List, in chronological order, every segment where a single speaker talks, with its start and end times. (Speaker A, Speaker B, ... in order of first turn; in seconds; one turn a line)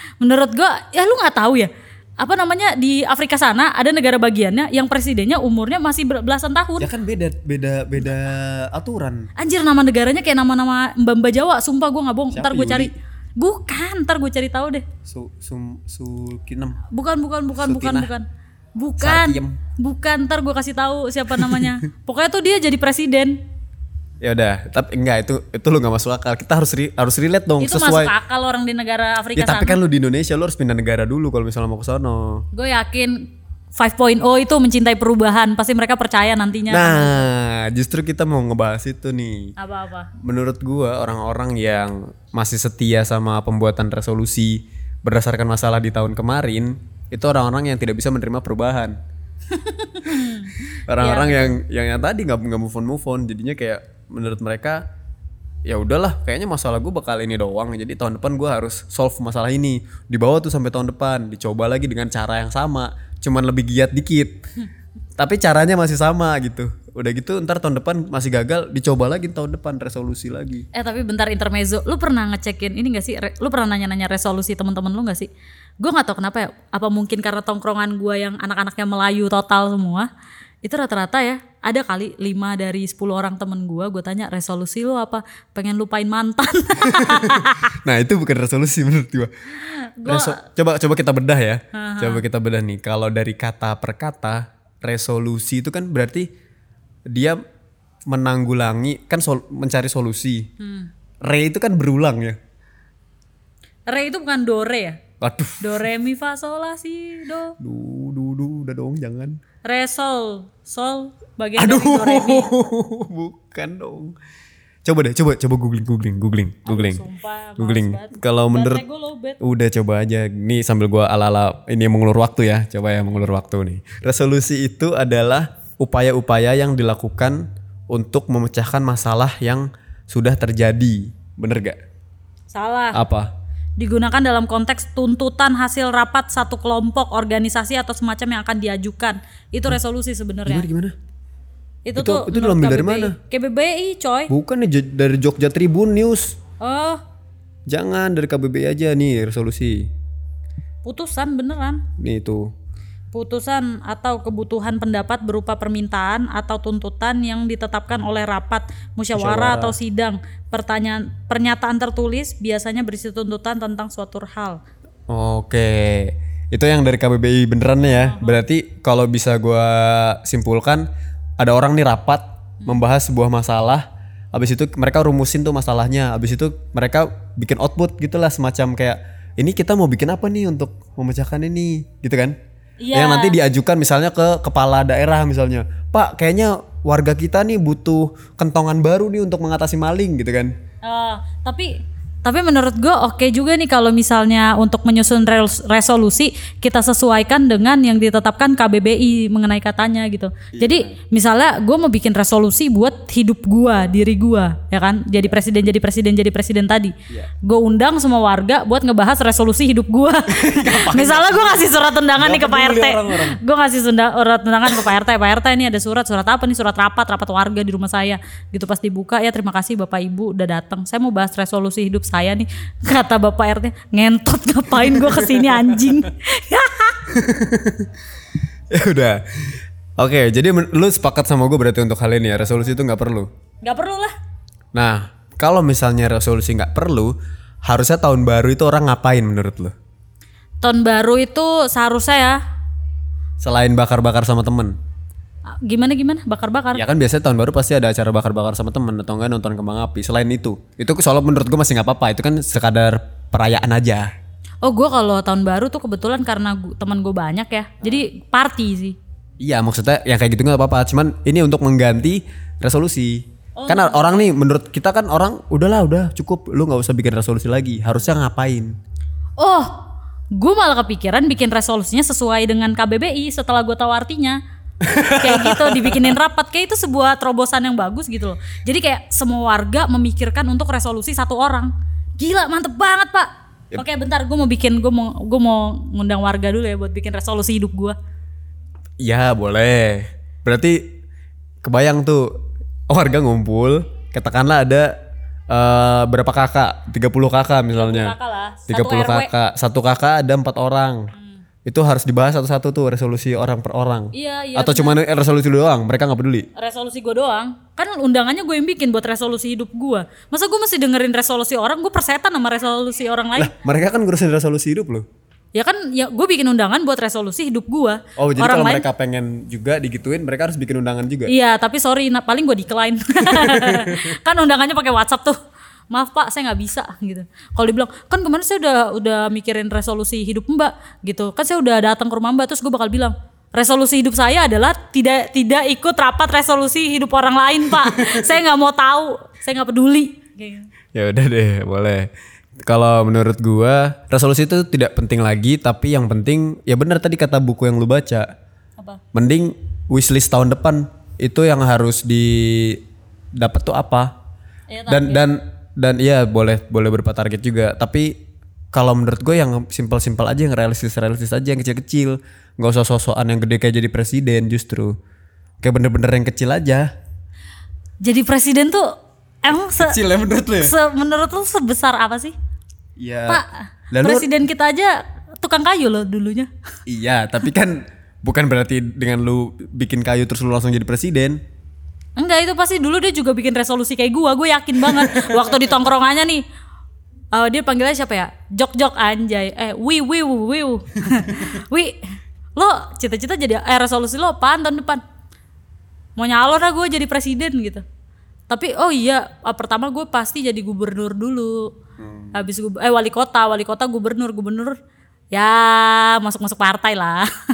Speaker A: 0.2-6.9
Speaker B: 6.8-9.3
Speaker A: 9.4-14.8
Speaker B: 12.3-12.9
Speaker B: 15.0-16.8
Speaker A: 16.9-18.2
Speaker B: 17.6-18.1
Speaker A: 18.8-23.4
Speaker B: 19.0-19.6
Speaker B: 24.2-28.1
Speaker A: 27.6-29.8
Speaker B: 29.4-32.4
Speaker A: 32.5-37.2
Speaker B: 36.7-39.5
Speaker A: 39.6-40.1
Speaker B: 40.2-49.0
Speaker A: 49.5-51.5
Speaker B: 50.9-54.8
Speaker B: 55.6-64.4
Speaker B: 65.2-70.6
Speaker A: 70.7-75.3
Speaker A: 75.8-80.1
Speaker A: 80.6-87.7
Speaker B: 86.8-89.3
Speaker A: 89.6-90.4
Speaker B: 90.0-96.2
Speaker A: 91.7-92.2
Speaker B: 97.1-97.4
Speaker B: 98.1-100.5
Speaker A: 100.6-100.9
Speaker B: 101.2-102.4
Speaker A: 103.9-105.0
Speaker B: 105.2-105.7
Speaker A: 105.6-107.5
Speaker B: 107.6-109.4
Speaker A: 109.6-112.5
Speaker B: 111.6-114.1
Speaker B: 114.8-117.0
Speaker A: 116.7-119.4
Speaker B: 117.6-118.8
Speaker B: 119.4-131.8
Speaker A: 132.5-133.0
Speaker B: 132.9-133.3
Speaker A: 133.8-140.6
Speaker B: 140.4-140.9
Speaker A: 141.8-144.3
Speaker B: 141.9-143.2
Speaker B: 144.3-146.3
Speaker A: 146.6-147.0
Speaker B: 147.7-149.9
Speaker A: 150.8-151.8
Speaker B: 152.0-152.5
Speaker A: 153.1-164.6
Speaker B: 159.1-159.8
Speaker B: 165.1-170.9
Speaker A: 167.8-168.4
Speaker B: 171.4-182.3
Speaker A: 182.8-183.3
Speaker B: 182.9-190.5
Speaker A: 190.8-227.0
Speaker B: 200.5-201.0
Speaker B: 210.3-211.7
Speaker B: 212.2-213.4
Speaker B: 224.9-225.4
Speaker B: 227.1-227.9
Speaker B: 228.7-229.2
Speaker B: 230.0-233.3
Speaker A: 233.6-234.1
Speaker B: 234.7-237.1
Speaker B: 237.7-239.7
Speaker A: 240.6-242.4
Speaker B: 243.4-244.7
Speaker A: 245.6-246.8
Speaker B: 246.7-254.1
Speaker A: 254.6-258.9
Speaker B: 259.4-268.7
Speaker A: 263.6-264.2
Speaker A: 269.4-269.8
Speaker A: 270.3-274.4
Speaker B: 274.8-276.1
Speaker A: 275.2-287.9
Speaker B: 289.0-290.8
Speaker B: 291.6-292.3
Speaker B: 292.9-294.9
Speaker B: 295.5-298.1
Speaker A: 297.7-299.3
Speaker B: 298.7-301.1
Speaker B: 301.6-306.5
Speaker A: 304.1-305.0
Speaker A: 306.6-313.5
Speaker B: 313.4-315.0
Speaker A: 315.5-318.9
Speaker B: 318.2-321.3
Speaker A: 321.3-325.4
Speaker B: 323.4-323.9
Speaker A: 325.9-340.7
Speaker B: 340.9-342.1
Speaker B: 342.6-348.3
Speaker B: 349.1-352.8
Speaker B: 353.4-354.1
Speaker A: 354.7-355.3
Speaker B: 354.9-358.1
Speaker B: 358.7-364.9
Speaker B: 365.6-366.9
Speaker A: 368.0-370.0
Speaker B: 369.8-370.7
Speaker A: 370.6-372.3
Speaker B: 373.0-374.3
Speaker A: 374.0-376.5
Speaker B: 376.9-381.4
Speaker A: 382.2-386.4
Speaker A: 387.3-392.0
Speaker A: 392.6-395.0
Speaker A: 396.2-397.8
Speaker A: 398.5-401.7
Speaker B: 402.0-402.4
Speaker A: 402.3-404.8
Speaker A: 405.3-407.3